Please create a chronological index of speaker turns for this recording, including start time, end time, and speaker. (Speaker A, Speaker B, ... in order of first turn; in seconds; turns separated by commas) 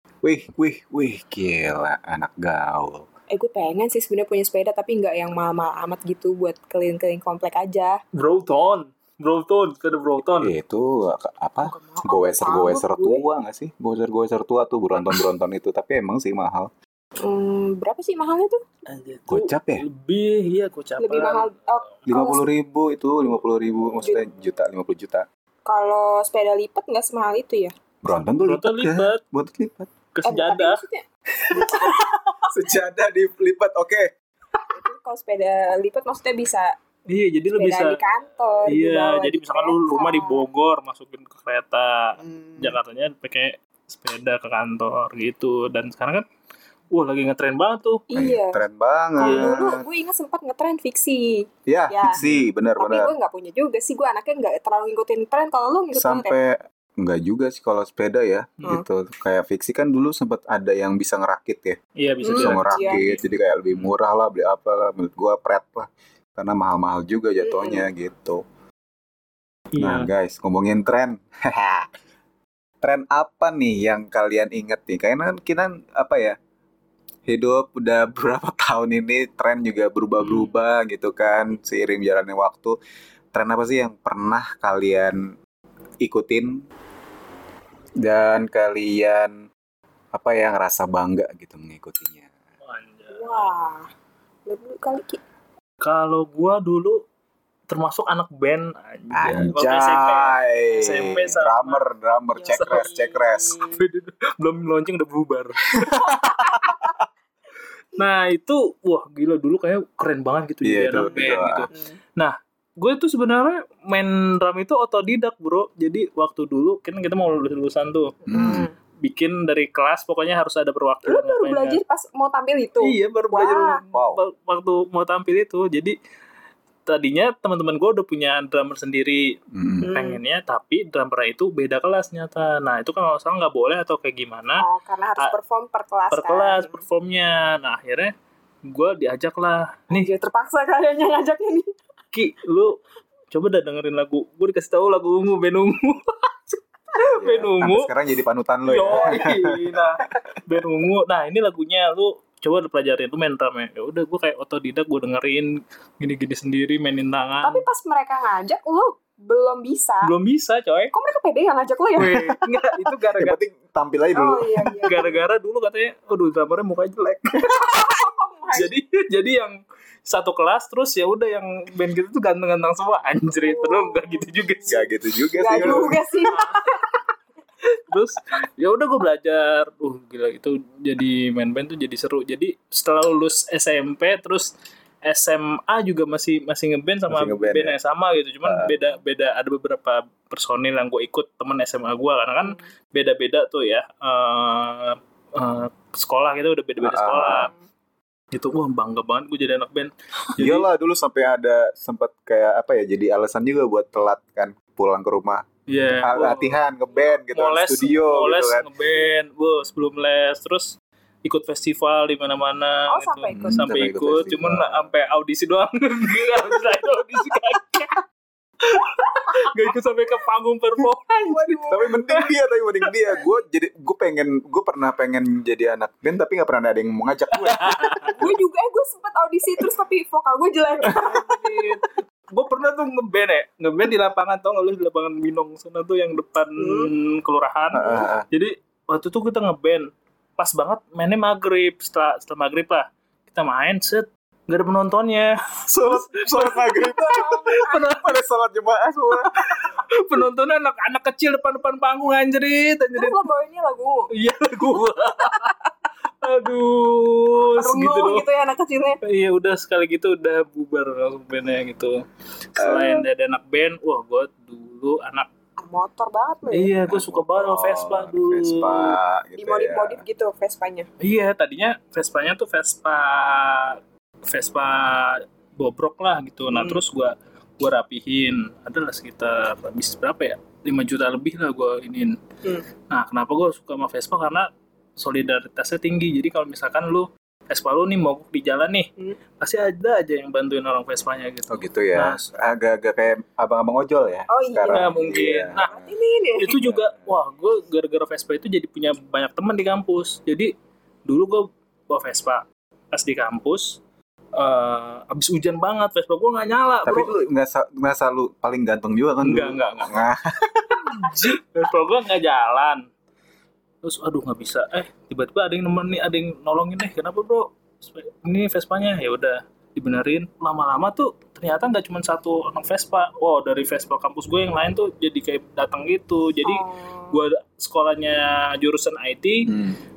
Speaker A: 0.2-3.1, Speaker B: 3.3-8.0, Speaker C: 8.2-10.5, Speaker A: 10.3-16.7, Speaker B: 11.6-13.2, Speaker B: 17.2-18.6, Speaker C: 18.9-21.5, Speaker A: 19.3-19.9, Speaker B: 21.0-22.4, Speaker A: 22.1-25.3, Speaker B: 25.7-27.7, Speaker A: 28.0-29.9, Speaker C: 28.2-29.2, Speaker C: 30.1-30.8, Speaker B: 30.3-32.2, Speaker A: 31.6-32.0, Speaker A: 32.5-34.1, Speaker B: 34.7-36.8, Speaker C: 37.1-38.0, Speaker B: 37.6-40.5, Speaker C: 38.7-46.2, Speaker A: 42.3-42.7, Speaker C: 46.9-48.0, Speaker B: 48.1-48.6, Speaker A: 48.1-49.8, Speaker B: 49.2-52.2, Speaker C: 49.2-49.5, Speaker A: 51.7-53.1, Speaker C: 52.1-52.5, Speaker B: 52.8-56.4, Speaker A: 55.9-61.8, Speaker C: 62.0-63.9, Speaker B: 62.2-63.0, Speaker A: 62.4-68.4, Speaker B: 67.4-67.9, Speaker C: 69.7-70.1, Speaker A: 69.8-71.9, Speaker A: 72.8-76.4, Speaker A: 77.3-82.8, Speaker C: 80.2-80.5, Speaker A: 83.3-85.2, Speaker A: 86.0-86.6, Speaker A: 88.0-89.3, Speaker A: 90.1-92.3, Speaker C: 92.6-93.5, Speaker B: 93.1-93.9, Speaker B: 94.5-95.2, Speaker C: 95.8-97.0, Speaker C: 97.7-101.8, Speaker A: 99.1-103.6, Speaker B: 102.3-103.8, Speaker C: 102.5-102.9, Speaker C: 103.6-106.2, Speaker A: 105.7-106.8, Speaker B: 106.5-106.8, Speaker C: 108.0-118.2, Speaker A: 110.6-111.7, Speaker B: 111.0-112.0, Speaker B: 118.3-118.7, Speaker A: 118.3-118.7, Speaker C: 119.0-121.8, Speaker B: 121.0-123.8, Speaker C: 122.8-126.0, Speaker A: 123.9-124.2, Speaker C: 126.9-129.3, Speaker A: 129.5-129.9, Speaker B: 129.8-130.2, Speaker C: 129.9-134.7, Speaker B: 134.6-136.8, Speaker C: 136.1-138.1, Speaker C: 138.7-140.1, Speaker B: 139.9-141.7, Speaker C: 142.1-142.8, Speaker C: 143.3-147.9, Speaker A: 147.2-149.8, Speaker C: 148.7-157.6, Speaker B: 157.4-160.1, Speaker C: 160.0-160.9, Speaker B: 160.9-162.2, Speaker C: 162.0-163.4, Speaker A: 162.0-162.3, Speaker A: 163.2-164.9, Speaker B: 164.2-165.2, Speaker C: 164.8-167.7, Speaker B: 167.4-168.7, Speaker C: 168.5-174.8, Speaker B: 173.3-177.0, Speaker A: 174.7-176.0, Speaker C: 176.3-176.7, Speaker C: 177.9-184.5, Speaker C: 185.1-197.5, Speaker A: 187.1-187.8, Speaker A: 188.4-188.7, Speaker A: 196.8-197.5, Speaker C: 198.3-200.7, Speaker A: 200.4-205.5, Speaker C: 205.7-206.6, Speaker A: 206.0-208.7, Speaker C: 207.3-218.0, Speaker B: 212.9-213.8, Speaker A: 213.3-214.9, Speaker C: 218.6-222.3, Speaker B: 221.3-221.8, Speaker A: 221.7-228.1, Speaker C: 227.3-228.2, Speaker B: 228.2-231.3, Speaker C: 230.9-245.4, Speaker B: 236.6-236.9, Speaker A: 237.7-238.3, Speaker A: 245.7-249.3, Speaker C: 245.9-246.8, Speaker B: 246.4-247.9, Speaker C: 247.5-248.1, Speaker C: 249.3-253.2, Speaker B: 252.9-254.1, Speaker C: 254.2-255.6, Speaker C: 256.2-258.2, Speaker B: 257.6-259.0, Speaker C: 259.0-265.3, Speaker A: 262.6-262.9, Speaker B: 262.6-263.1, Speaker B: 265.6-266.7, Speaker C: 266.5-269.0, Speaker A: 266.8-270.0, Speaker B: 269.4-270.9, Speaker C: 271.0-282.2, Speaker B: 276.5-276.8, Speaker C: 282.9-292.2, Speaker A: 291.5-295.9, Speaker B: 294.3-296.6, Speaker C: 294.7-295.8, Speaker C: 296.4-300.5, Speaker A: 296.6-297.1, Speaker C: 301.1-303.8, Speaker C: 304.4-307.1, Speaker A: 306.9-311.4, Speaker C: 309.2-310.1, Speaker C: 310.7-312.9, Speaker C: 313.8-329.6, Speaker B: 326.4-327.2, Speaker A: 329.5-329.8